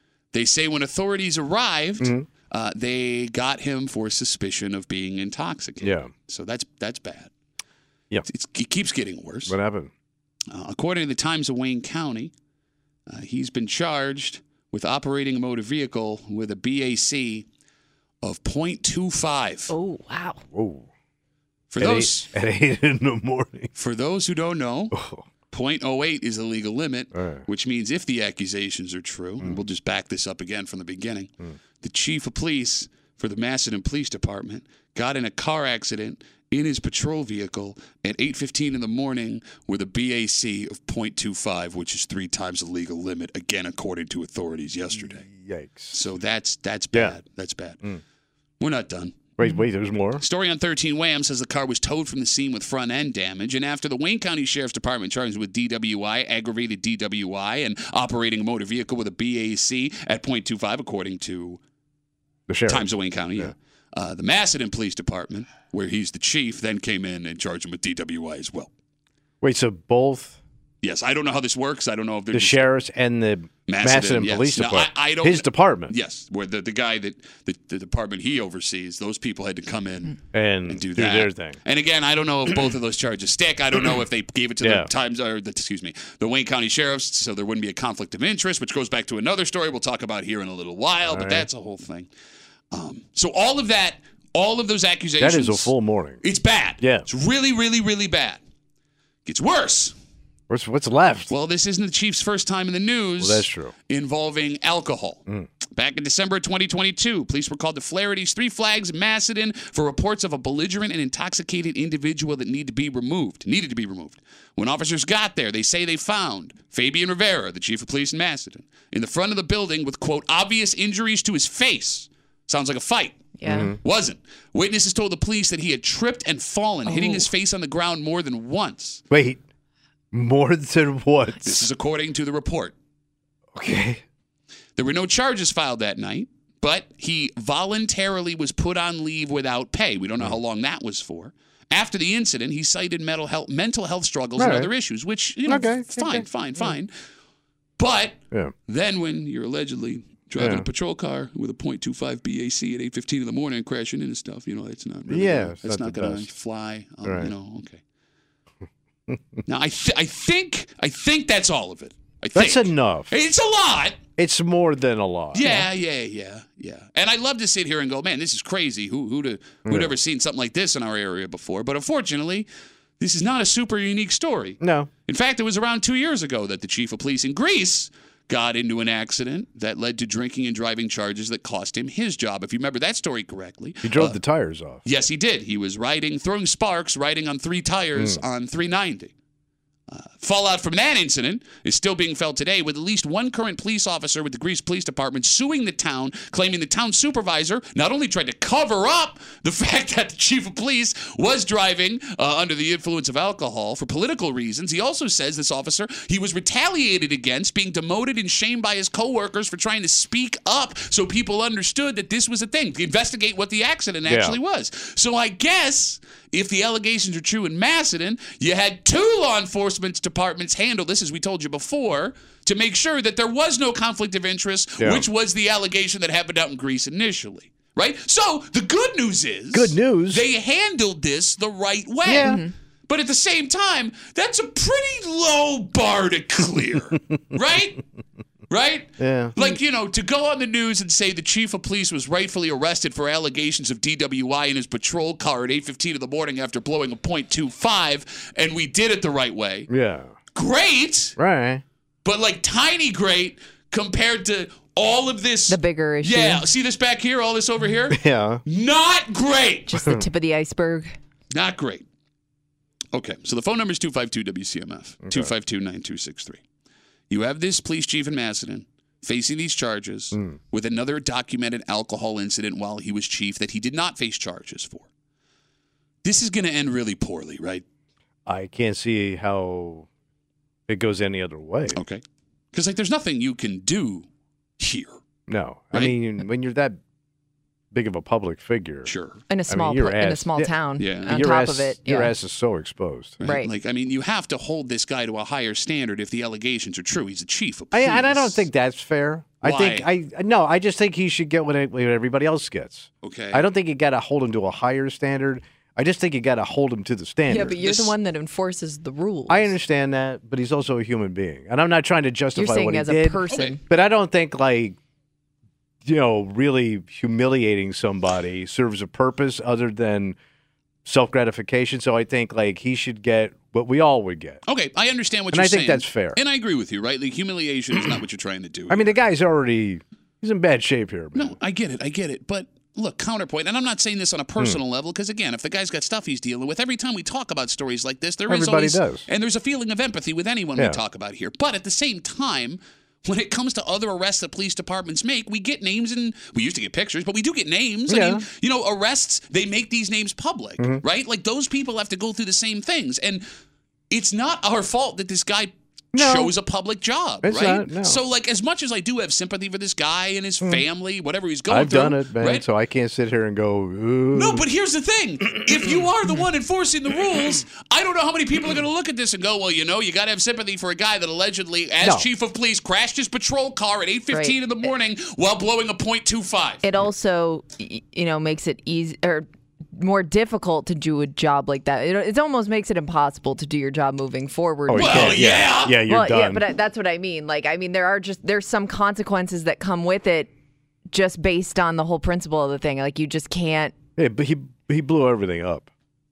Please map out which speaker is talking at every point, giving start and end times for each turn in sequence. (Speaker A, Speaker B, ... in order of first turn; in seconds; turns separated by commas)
Speaker A: 0.3-7.3, Speaker B: 2.0-2.3, Speaker B: 5.8-6.1, Speaker A: 8.3-9.6, Speaker B: 9.4-9.9, Speaker A: 10.5-12.3, Speaker A: 13.1-17.4, Speaker A: 18.2-19.7, Speaker C: 19.7-20.4, Speaker B: 20.5-20.9, Speaker A: 21.7-22.3, Speaker B: 21.8-23.7, Speaker A: 23.8-24.9, Speaker B: 24.9-25.2, Speaker A: 25.5-31.3, Speaker B: 27.1-27.4, Speaker A: 31.8-45.2, Speaker B: 45.0-45.9, Speaker A: 45.9-47.8, Speaker A: 48.6-49.3, Speaker B: 49.4-50.2, Speaker A: 50.2-61.6, Speaker B: 62.5-63.5, Speaker A: 62.7-68.7, Speaker B: 69.4-70.4, Speaker A: 70.8-72.7, Speaker B: 72.3-75.9, Speaker A: 73.7-92.1, Speaker B: 80.3-81.6, Speaker B: 84.6-84.9, Speaker B: 91.1-91.5, Speaker A: 92.7-98.4, Speaker B: 95.2-96.2, Speaker B: 96.8-97.0, Speaker A: 99.2-99.9, Speaker B: 100.5-101.3, Speaker A: 101.3-105.2, Speaker B: 103.2-103.7, Speaker A: 105.7-129.0, Speaker C: 123.4-123.7, Speaker B: 123.5-123.8, Speaker C: 126.9-127.2, Speaker B: 129.1-129.4, Speaker B: 130.1-131.6, Speaker A: 131.4-132.7, Speaker B: 133.5-134.0, Speaker A: 134.8-146.9, Speaker B: 144.4-144.7, Speaker B: 145.4-146.2, Speaker A: 147.8-157.8, Speaker B: 150.4-150.7, Speaker B: 155.1-156.3, Speaker B: 157.0-157.3, Speaker B: 159.1-159.4, Speaker A: 159.4-164.0, Speaker B: 162.3-163.1, Speaker B: 164.2-165.7, Speaker A: 165.3-172.5, Speaker B: 169.7-169.9, Speaker A: 173.0-184.2, Speaker B: 174.6-174.9, Speaker B: 183.8-184.8, Speaker A: 184.8-189.1, Speaker A: 189.9-237.8, Speaker B: 214.1-214.4, Speaker B: 224.8-225.0, Speaker B: 229.5-230.2, Speaker B: 232.0-232.4, Speaker C: 232.2-232.5, Speaker A: 238.5-249.7, Speaker B: 239.0-239.3, Speaker B: 249.7-250.1, Speaker A: 250.3-251.2, Speaker B: 251.2-251.6, Speaker A: 252.0-259.8, Speaker C: 255.5-256.4, Speaker B: 257.9-258.4, Speaker C: 259.7-260.9, Speaker A: 261.3-261.8, Speaker A: 262.9-266.4, Speaker A: 267.1-274.9, Speaker A: 276.0-277.6, Speaker B: 278.2-279.9, Speaker B: 280.7-281.8, Speaker A: 281.7-284.1, Speaker A: 284.6-285.0, Speaker B: 285.3-286.8, Speaker B: 287.7-288.9, Speaker A: 288.9-289.2, Speaker C: 289.3-292.1, Speaker B: 289.5-293.2, Speaker A: 290.8-291.2, Speaker A: 293.2-298.4, Speaker C: 293.2-293.5, Speaker B: 297.7-307.6, Speaker A: 299.4-299.9, Speaker A: 303.0-303.4, Speaker C: 307.3-309.5, Speaker A: 307.3-307.9, Speaker B: 309.3-314.8, Speaker C: 312.4-313.6, Speaker A: 313.3-313.6, Speaker B: 315.8-320.2, Speaker B: 320.9-324.4, Speaker A: 324.4-328.9, Speaker B: 325.3-326.2, Speaker B: 328.7-331.4, Speaker A: 331.1-353.2, Speaker B: 338.3-339.1, Speaker B: 347.9-348.2, Speaker A: 353.9-362.4, Speaker B: 355.9-356.3, Speaker B: 357.2-358.0, Speaker B: 361.5-364.4, Speaker A: 364.1-376.6, Speaker B: 371.8-372.1, Speaker C: 376.6-385.3, Speaker B: 384.7-386.4, Speaker A: 384.7-385.8, Speaker C: 385.9-390.3, Speaker C: 390.9-393.7, Speaker B: 394.0-395.7